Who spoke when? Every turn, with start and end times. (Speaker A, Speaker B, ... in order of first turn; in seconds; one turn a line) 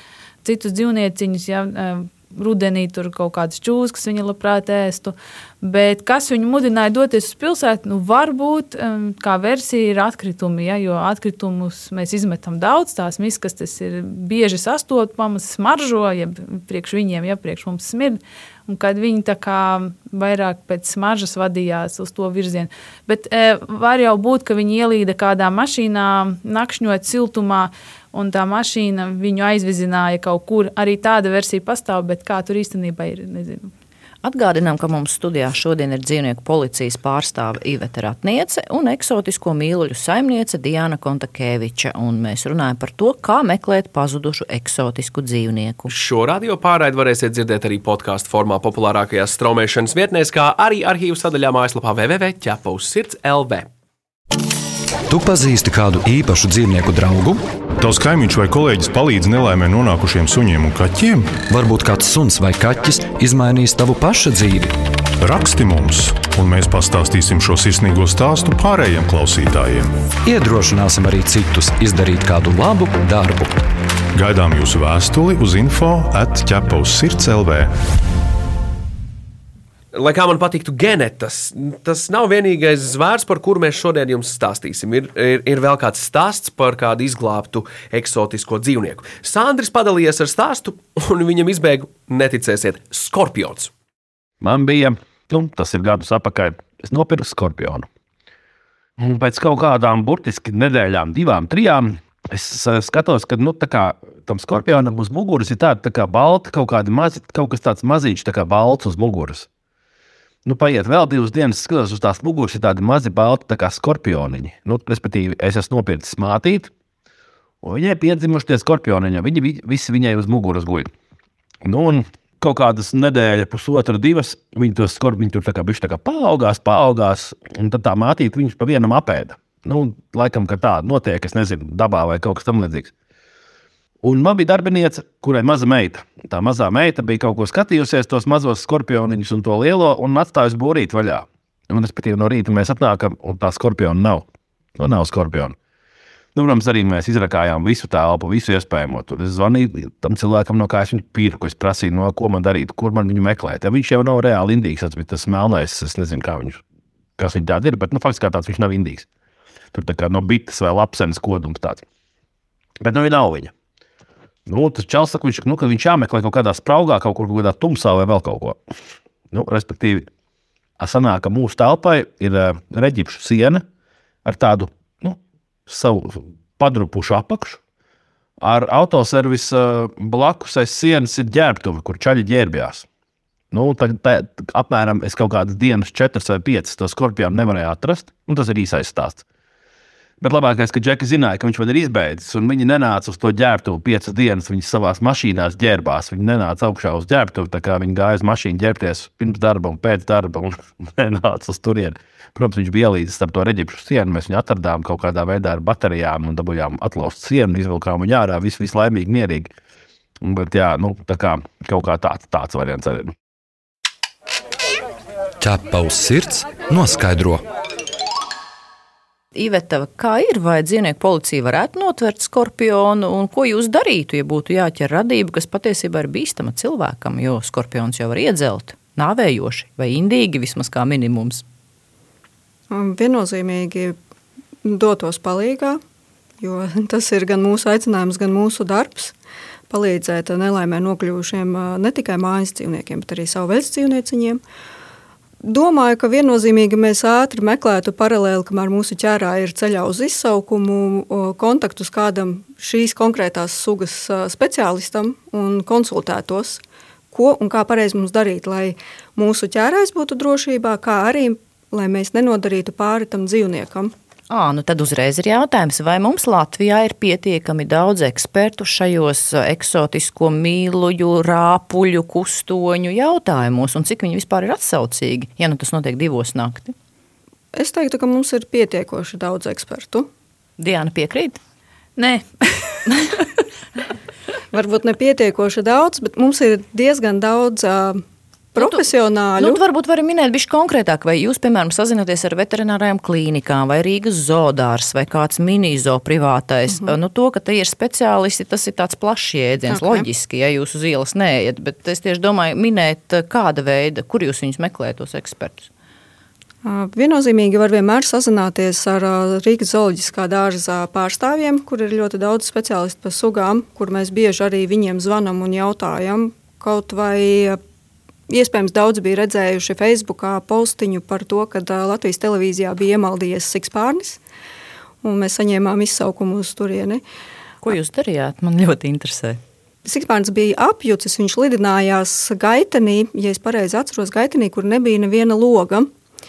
Speaker A: 0.4-33.7
Speaker B: 34.2-45.9
Speaker C: 45.9-53.7
Speaker D: 55.1-57.4
Speaker E: 57.8-61.4
Speaker D: 61.5-64.7
Speaker E: 65.2-69.9
Speaker D: 70.2-73.6
Speaker E: 74.1-77.7
Speaker C: 79.9-93.7
Speaker F: 94.4-97.9
Speaker F: 99.0-109.5
Speaker F: 110.4-116.7
Speaker F: 117.6-120.9
Speaker F: 121.6-132.9
Speaker F: 134.0-144.2
Speaker F: 144.8-145.6
Speaker F: 146.3-156.6
Speaker F: 157.2-159.1
Speaker F: 159.7-161.8
Speaker F: 162.8-163.5
Speaker F: 164.5-168.6
Speaker F: 169.3-170.1
Speaker F: 170.8-173.6
Speaker F: 174.2-177.6
Speaker F: 178.4-182.9
Speaker F: 183.5-189.2
Speaker F: 190.2-209.5
Speaker F: 210.2-213.1
Speaker D: 215.4-217.4
Speaker B: 219.3-231.4
Speaker G: 232.7-233.9
Speaker G: 234.6-235.8
Speaker G: 236.4-239.1
Speaker G: 239.7-244.4
Speaker G: 245.4-263.9
Speaker B: 264.3-276.7
Speaker G: 277.5-280.1
Speaker B: 280.6-281.4
Speaker A: 282.0-283.0
Speaker G: 284.5-288.0
Speaker G: 288.5-289.6
Speaker B: 288.6-288.8
Speaker B: 289.4-305.7
Speaker G: 299.6-300.1
Speaker G: 306.6-317.6
Speaker G: 318.3-324.2
Speaker G: 325.0-327.0
Speaker B: 327.6-329.4
Speaker G: 329.8-335.9